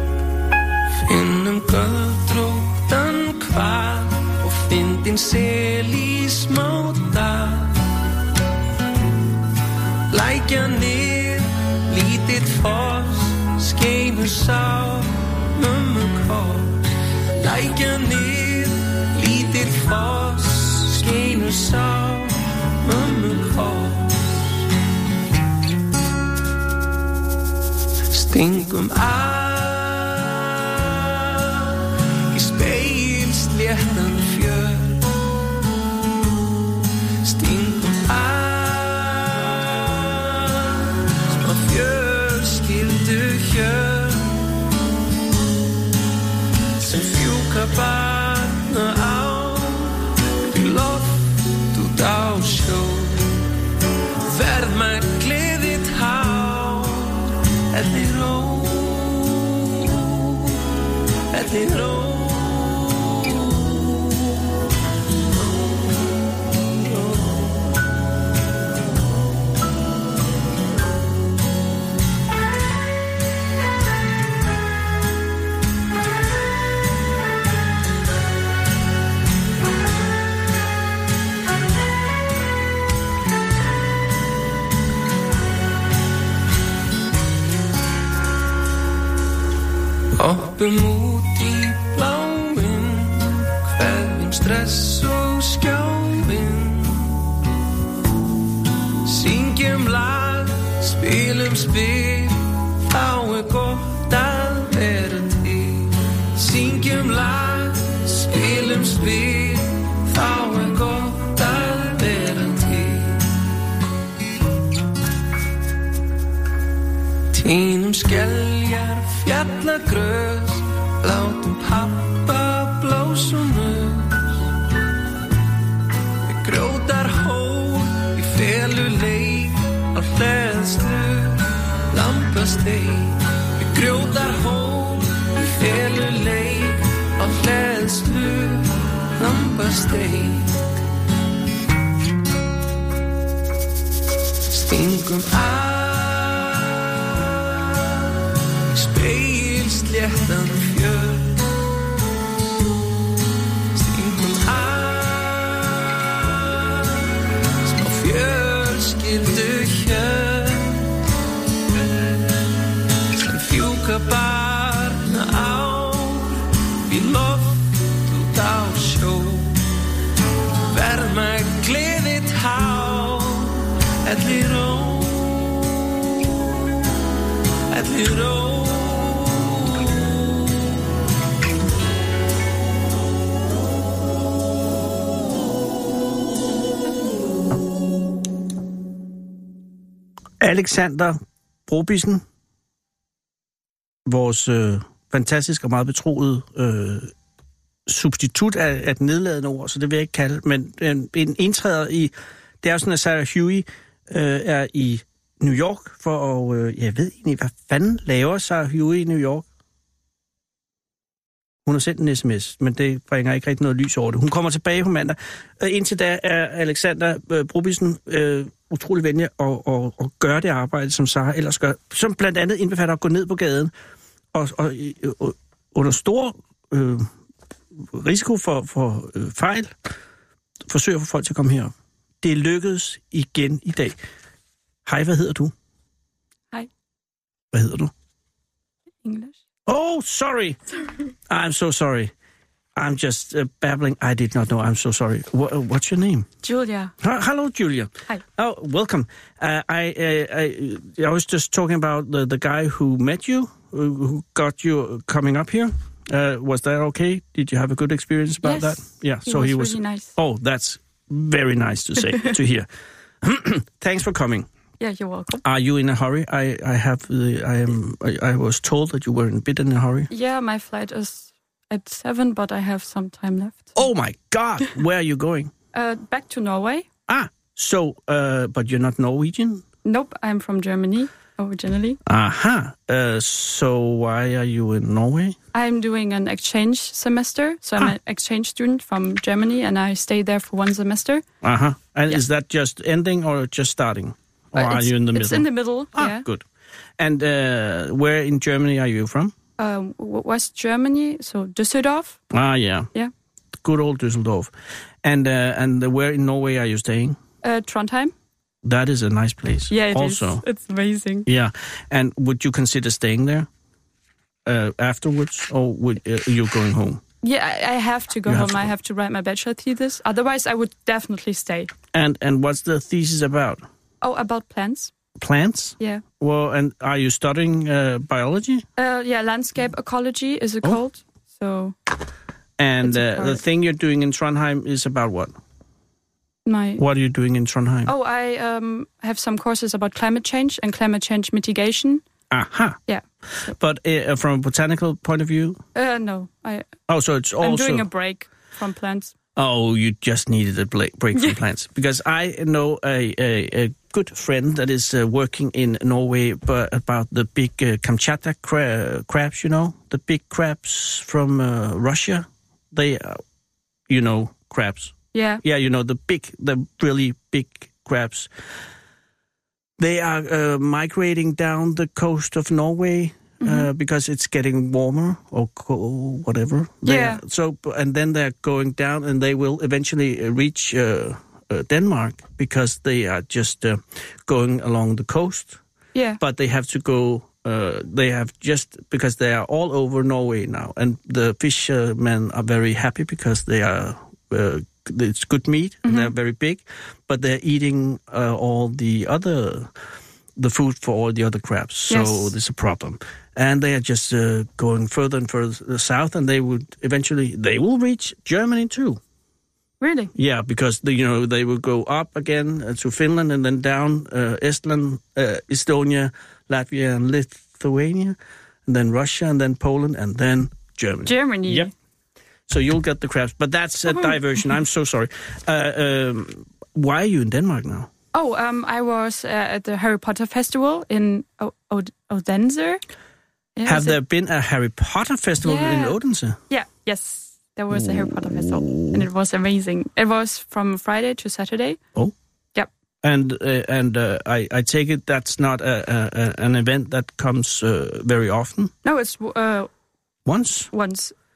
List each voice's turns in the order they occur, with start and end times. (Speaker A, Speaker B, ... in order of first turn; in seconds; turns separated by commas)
Speaker A: 1.1-7.8, Speaker A: 10.1-24.6, Speaker A: 28.1-35.1, Speaker A: 37.2-44.6, Speaker A: 46.8-53.4, Speaker A: 54.2-60.5, Speaker A: 61.3-64.3, Speaker A: 66.6-67.6, Speaker A: 90.2-97.3, Speaker A: 99.0-113.5, Speaker A: 117.3-124.5, Speaker A: 126.2-140.6, Speaker A: 144.5-148.0, Speaker A: 148.7-151.6, Speaker A: 153.7-157.1, Speaker A: 157.6-160.9, Speaker A: 163.1-169.6, Speaker A: 170.7-175.5, Speaker A: 177.7-180.6, Speaker B: 190.4-192.2, Speaker B: 194.1-197.1, Speaker B: 197.9-209.5, Speaker B: 211.7-223.7, Speaker B: 224.3-227.1, Speaker B: 227.8-229.7, Speaker B: 230.7-234.0, Speaker B: 234.8-235.5, Speaker B: 237.5-237.9, Speaker C: 239.0-239.4, Speaker B: 239.7-240.6, Speaker B: 241.3-242.1, Speaker B: 242.8-246.3, Speaker C: 246.4-246.9, Speaker B: 247.0-262.7, Speaker C: 258.4-260.1, Speaker B: 263.2-264.5, Speaker C: 264.8-265.4, Speaker B: 265.4-270.1, Speaker C: 270.1-273.8, Speaker B: 273.8-275.5, Speaker C: 275.7-276.9, Speaker B: 277.1-279.7, Speaker C: 279.8-282.0, Speaker B: 282.1-285.4, Speaker C: 285.5-291.2, Speaker B: 291.4-296.4, Speaker C: 294.6-296.2, Speaker B: 297.0-299.4, Speaker C: 299.6-302.2, Speaker B: 302.3-302.9, Speaker B: 303.6-304.5, Speaker B: 305.0-307.2, Speaker C: 307.4-308.1, Speaker B: 308.6-310.4, Speaker C: 309.7-311.3, Speaker B: 311.3-313.5, Speaker B: 314.4-317.0, Speaker C: 317.2-321.7, Speaker B: 318.3-318.7, Speaker B: 321.9-323.6, Speaker C: 324.0-324.9, Speaker B: 325.2-328.7, Speaker C: 325.8-326.1, Speaker C: 328.8-331.8, Speaker B: 332.6-335.3, Speaker C: 332.8-333.4, Speaker C: 336.4-336.8, Speaker B: 336.8-337.9, Speaker C: 337.9-342.0, Speaker B: 342.3-342.8, Speaker C: 342.9-343.5, Speaker B: 343.4-345.6, Speaker C: 345.8-346.7, Speaker B: 346.9-347.9, Speaker C: 347.4-349.1, Speaker B: 349.4-363.2, Speaker B: 363.9-368.3, Speaker C: 365.1-365.4, Speaker B: 369.8-385.6, Speaker C: 373.4-373.7, Speaker C: 376.8-377.2, Speaker C: 385.9-386.2, Speaker B: 386.2-399.7, Speaker C: 395.8-396.1, Speaker B: 400.4-409.0, Speaker C: 401.9-402.3, Speaker C: 409.8-410.1, Speaker B: 410.2-421.7, Speaker C: 421.1-421.7, Speaker B: 422.5-427.9, Speaker C: 428.1-432.8, Speaker C: 433.6-434.0, Speaker B: 433.6-436.4, Speaker C: 435.4-436.0, Speaker C: 436.5-441.8, Speaker B: 437.7-439.1, Speaker B: 443.0-448.7, Speaker C: 448.8-449.7, Speaker B: 450.3-450.7, Speaker C: 450.7-451.1